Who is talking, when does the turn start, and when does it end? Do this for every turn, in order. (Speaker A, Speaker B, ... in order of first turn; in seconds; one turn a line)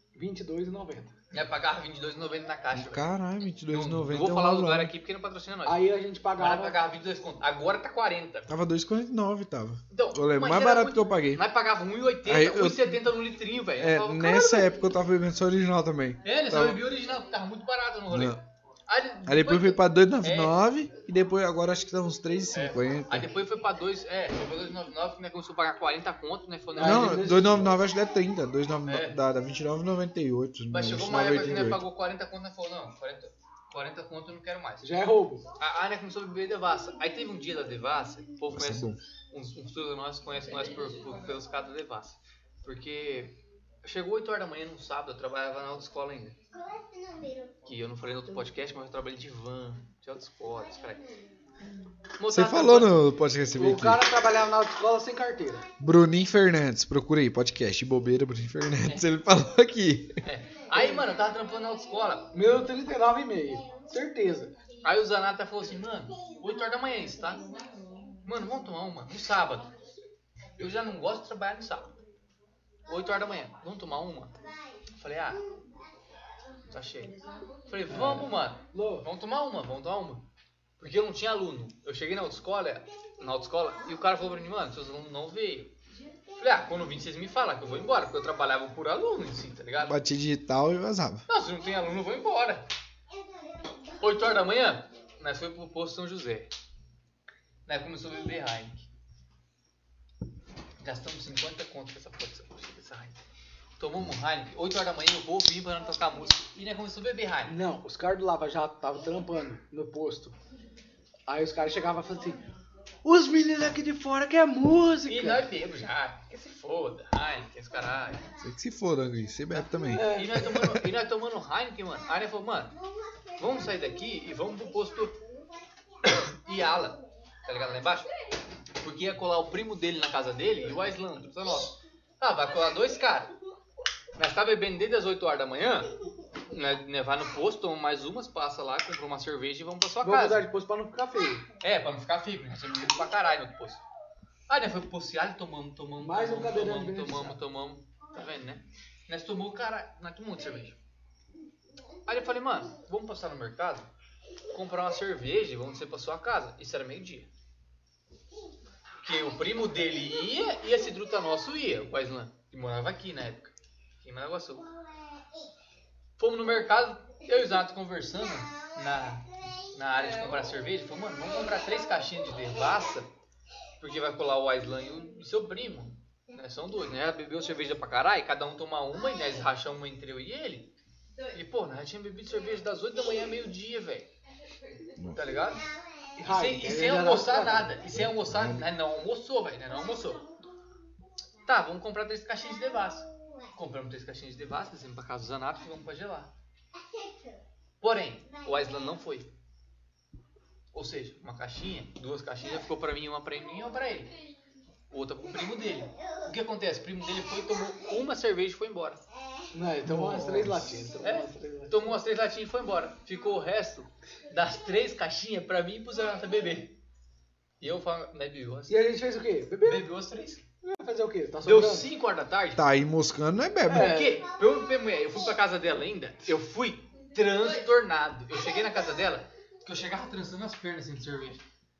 Speaker A: 0.1-1.1
Speaker B: 1.3-3.1
Speaker C: 2.7-4.9
Speaker B: 3.7-8.5
Speaker A: 5.6-6.8
Speaker C: 8.5-11.4
Speaker B: 9.9-14.7
Speaker C: 12.2-13.0
Speaker C: 13.8-16.8
Speaker B: 16.2-20.6
Speaker C: 18.1-18.4
Speaker C: 19.2-23.3
Speaker B: 22.5-27.2
Speaker A: 26.8-27.7
Speaker C: 26.8-31.8
Speaker B: 28.9-29.2
Speaker B: 30.7-34.9
Speaker A: 34.8-35.4
Speaker B: 35.6-46.4
Speaker C: 38.5-39.0
Speaker B: 47.6-51.0
Speaker B: 52.2-53.0
Speaker C: 52.3-54.0
Speaker A: 53.6-55.6
Speaker C: 55.8-60.2
Speaker B: 60.2-62.4
Speaker A: 60.7-61.0
Speaker A: 62.3-64.5
Speaker B: 64.8-67.5
Speaker B: 68.2-69.7
Speaker B: 70.6-72.0
Speaker B: 72.9-74.3
Speaker B: 75.0-75.4
Speaker B: 76.7-80.3
Speaker A: 77.9-79.1
Speaker B: 80.8-85.7
Speaker B: 86.4-90.0
Speaker C: 89.8-91.2
Speaker B: 91.3-92.6
Speaker B: 94.0-96.5
Speaker B: 97.7-98.9
Speaker B: 100.8-103.2
Speaker B: 103.8-107.5
Speaker A: 107.4-110.3
Speaker A: 111.3-112.4
Speaker A: 113.0-115.5
Speaker B: 115.1-118.3
Speaker C: 118.4-120.8
Speaker A: 119.9-120.4
Speaker B: 120.0-122.8
Speaker B: 123.4-125.2
Speaker B: 126.1-128.1
Speaker B: 128.8-133.3
Speaker B: 134.2-135.9
Speaker B: 136.5-140.4
Speaker A: 140.0-141.4
Speaker B: 141.6-143.8
Speaker B: 144.5-150.8
Speaker A: 146.0-147.4
Speaker B: 152.1-153.9
Speaker B: 154.5-157.3
Speaker B: 159.0-164.7
Speaker B: 166.2-173.1
Speaker B: 173.8-180.7
Speaker B: 181.3-184.1
Speaker B: 185.1-185.7
Speaker A: 186.2-187.7
Speaker B: 186.2-190.2
Speaker C: 187.9-188.7
Speaker B: 191.4-196.3
Speaker B: 197.8-199.3
Speaker B: 200.7-204.1
Speaker B: 204.9-209.0
Speaker A: 209.5-211.9
Speaker C: 209.8-210.8
Speaker B: 211.0-216.8
Speaker B: 217.6-218.8
Speaker A: 218.7-219.9
Speaker B: 219.6-220.4
Speaker A: 220.6-221.9
Speaker B: 221.4-222.6
Speaker C: 222.6-223.9
Speaker A: 223.7-224.2
Speaker B: 223.7-231.4